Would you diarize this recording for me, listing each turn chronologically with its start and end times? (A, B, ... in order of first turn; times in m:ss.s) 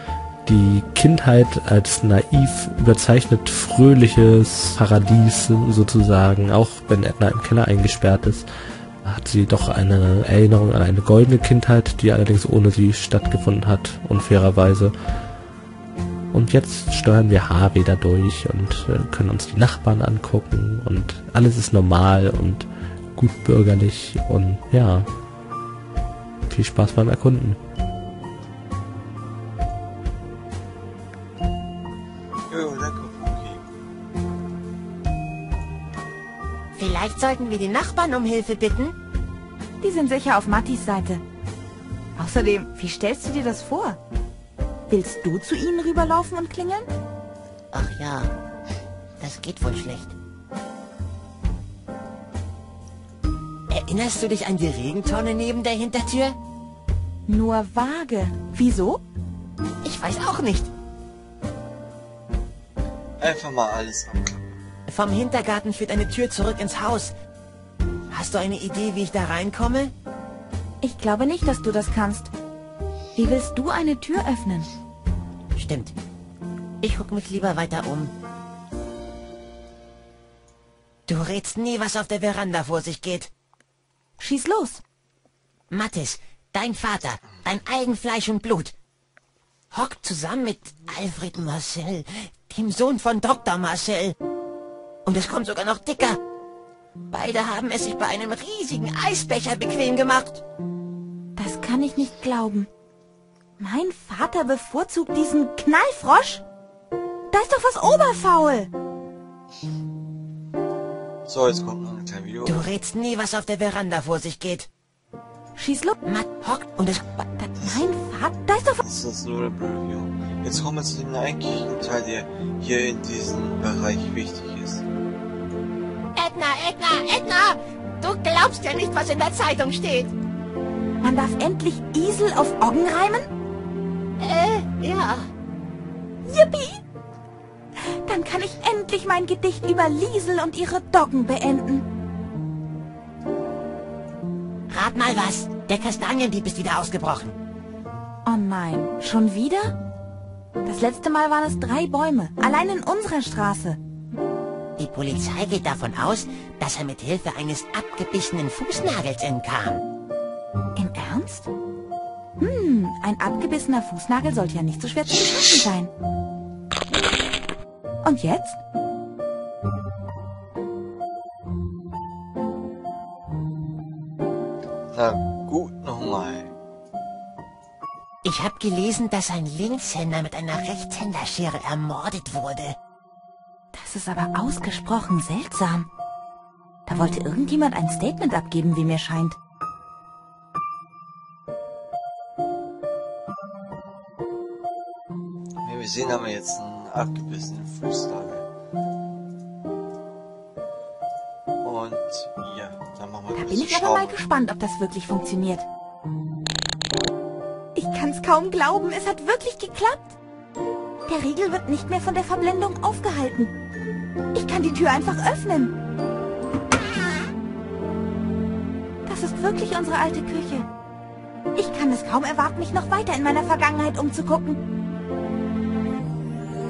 0:00.4-0:08.5 A
0:09.0-0:14.9 A
0:16.3-0:25.1 A
0:26.5-0:27.6 A
0:32.5-0:33.6 B
0:36.7-0:39.0 C
0:39.8-0:41.2 D
0:42.2-0:44.0 D
0:44.9-0:46.9 D
0:47.7-0:48.3 C
0:49.2-0:50.1 C
0:53.7-0:56.4 C
0:57.2-0:59.0 D
0:59.8-1:00.7 C
1:03.2-1:04.6 B
1:04.9-1:07.1 C
1:08.1-1:09.9 C
1:10.8-1:12.3 D
1:13.1-1:14.7 D
1:15.5-1:15.9 C
1:16.8-1:18.1 C
1:21.1-1:23.3 C
1:24.2-1:24.8 D
1:25.7-1:28.7 C
1:29.7-1:34.1 C
1:35.0-1:36.2 C
1:37.1-1:40.4 C
1:41.4-1:42.7 D
1:43.6-1:46.4 D
1:47.3-1:48.7 D
1:51.2-1:52.7 B
1:52.4-1:54.7 C
1:55.6-1:56.0 D
1:56.0-1:57.2 C
1:57.4-1:58.8 D
1:57.6-1:57.9 B
1:58.8-2:04.8 B
2:06.1-2:10.1 C
2:11.0-2:13.3 D
2:14.2-2:15.3 C
2:16.2-2:16.8 D
2:17.8-2:21.8 D
2:24.7-2:27.4 C
2:28.2-2:29.8 D
2:30.6-2:33.8 D
2:34.8-2:39.8 C
2:40.8-2:41.5 D
2:42.4-2:45.9 D
2:48.0-2:48.6 D
2:54.9-2:56.5 B
2:58.2-3:02.8 C
3:03.7-3:05.9 D
3:06.8-3:09.4 D
3:15.6-3:18.5 B
3:21.6-3:24.2 B
3:23.3-3:25.7 D
3:27.7-3:30.2 D
3:31.1-3:33.5 D
3:34.3-3:35.8 D
3:39.0-3:40.7 D
3:41.6-3:44.6 D